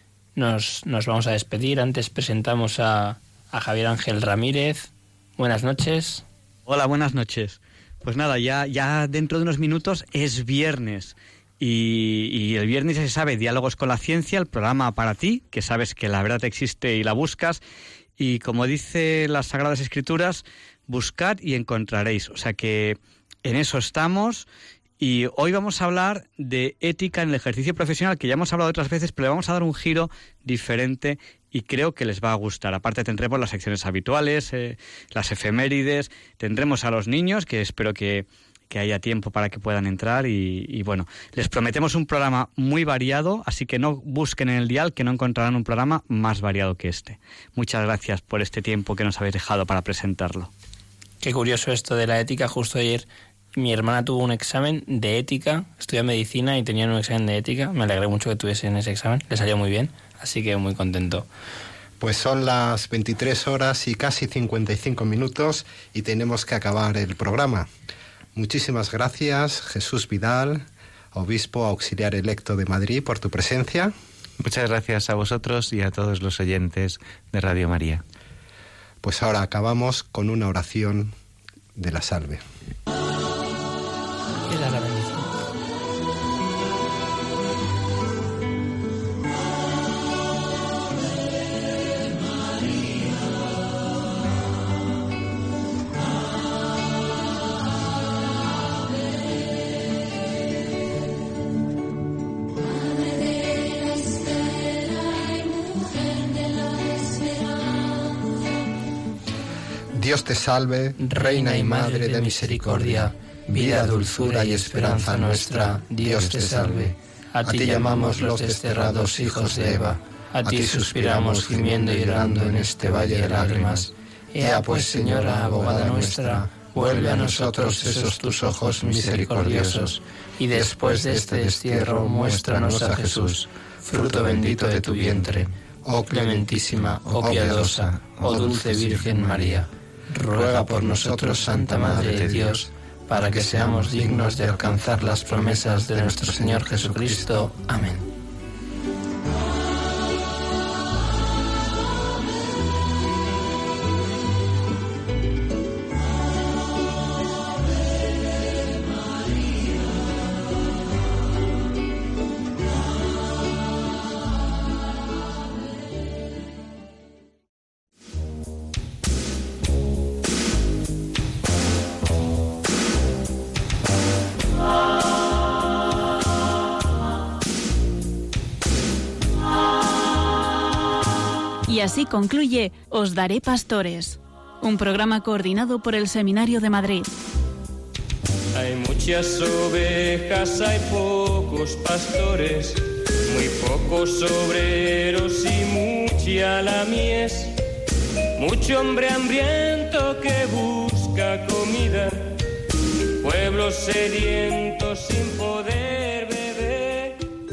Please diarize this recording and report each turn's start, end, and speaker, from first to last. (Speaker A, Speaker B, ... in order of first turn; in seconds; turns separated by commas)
Speaker A: 0.3-6.2, Speaker B: 6.7-17.6, Speaker B: 18.2-24.4, Speaker B: 25.0-50.5, Speaker A: 51.2-61.3, Speaker C: 62.0-67.7, Speaker C: 68.3-73.9, Speaker D: 74.4-78.0, Speaker C: 79.0-81.1, Speaker C: 81.7-82.4, Speaker A: 84.5-85.3, Speaker C: 109.9-130.0, Speaker A: 111.0-135.5, Speaker C: 130.5-139.6, Speaker A: 136.1-148.0, Speaker C: 140.3-147.6, Speaker E: 181.7-187.1, Speaker F: 188.5-197.5, Speaker F: 198.4-202.2, Speaker F: 203.2-207.2